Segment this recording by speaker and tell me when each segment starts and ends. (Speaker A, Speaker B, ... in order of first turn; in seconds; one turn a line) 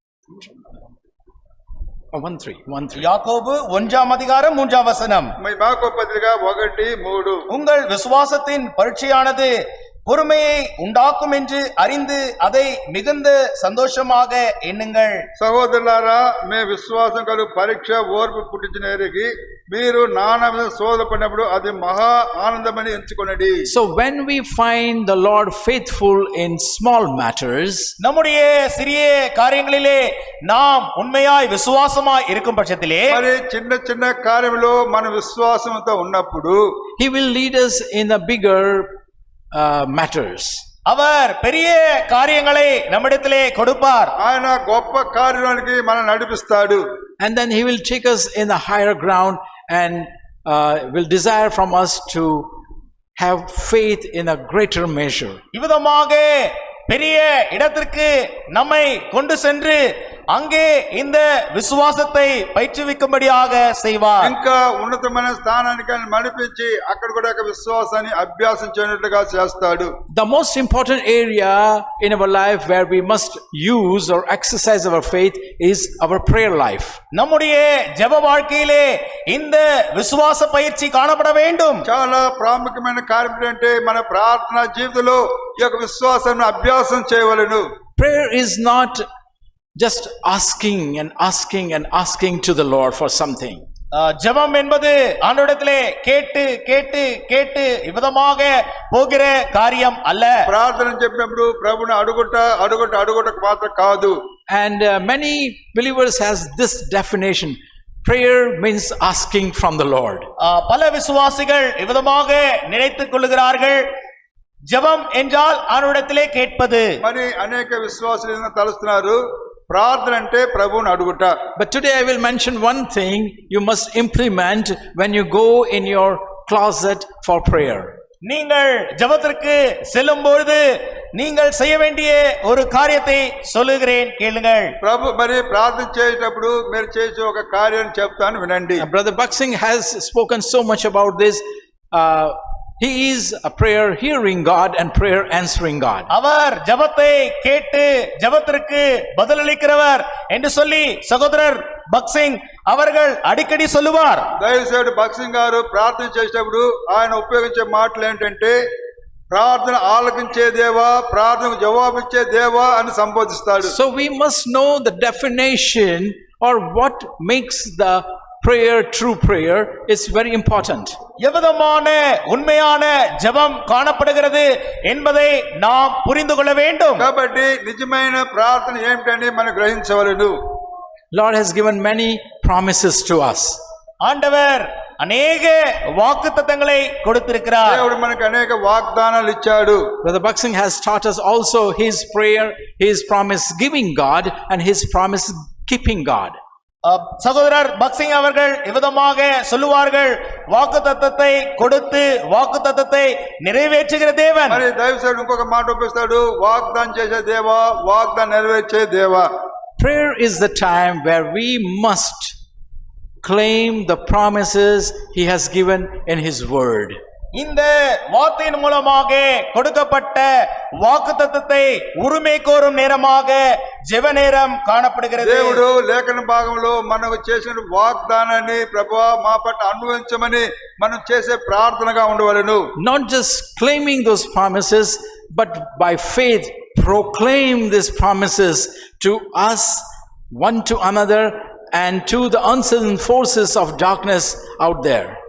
Speaker A: 2.1-3.1
Speaker B: 3.0-5.3
Speaker C: 5.4-7.5
Speaker B: 7.5-9.5
Speaker B: 10.1-15.2
Speaker C: 15.4-23.6
Speaker A: 23.7-27.9
Speaker B: 28.0-33.2
Speaker C: 33.1-36.6
Speaker A: 37.0-38.9
Speaker A: 39.5-40.6
Speaker B: 40.9-44.1
Speaker C: 44.2-46.8
Speaker A: 47.2-52.5
Speaker A: 53.2-55.4
Speaker B: 55.5-64.3
Speaker C: 64.2-69.9
Speaker A: 70.1-77.0
Speaker B: 77.1-81.8
Speaker C: 81.9-87.6
Speaker A: 88.0-89.0
Speaker A: 89.8-93.6
Speaker B: 93.9-100.3
Speaker C: 100.5-104.2
Speaker A: 104.5-110.3
Speaker B: 110.4-113.8
Speaker B: 114.7-116.9
Speaker C: 117.0-121.4
Speaker A: 121.6-127.9
Speaker B: 128.2-134.8
Speaker C: 134.8-138.8
Speaker A: 138.8-146.1
Speaker B: 146.1-154.3
Speaker C: 154.4-158.6
Speaker C: 159.3-163.7
Speaker A: 163.6-171.0
Speaker B: 171.2-177.1
Speaker C: 177.0-180.3
Speaker A: 181.1-183.6
Speaker B: 184.0-187.8
Speaker C: 187.7-189.8
Speaker A: 190.0-196.4
Speaker B: 196.8-204.6
Speaker C: 204.5-209.3
Speaker A: 209.8-212.3
Speaker A: 213.2-217.0
Speaker B: 217.3-225.6
Speaker C: 225.2-232.7
Speaker A: 232.8-245.2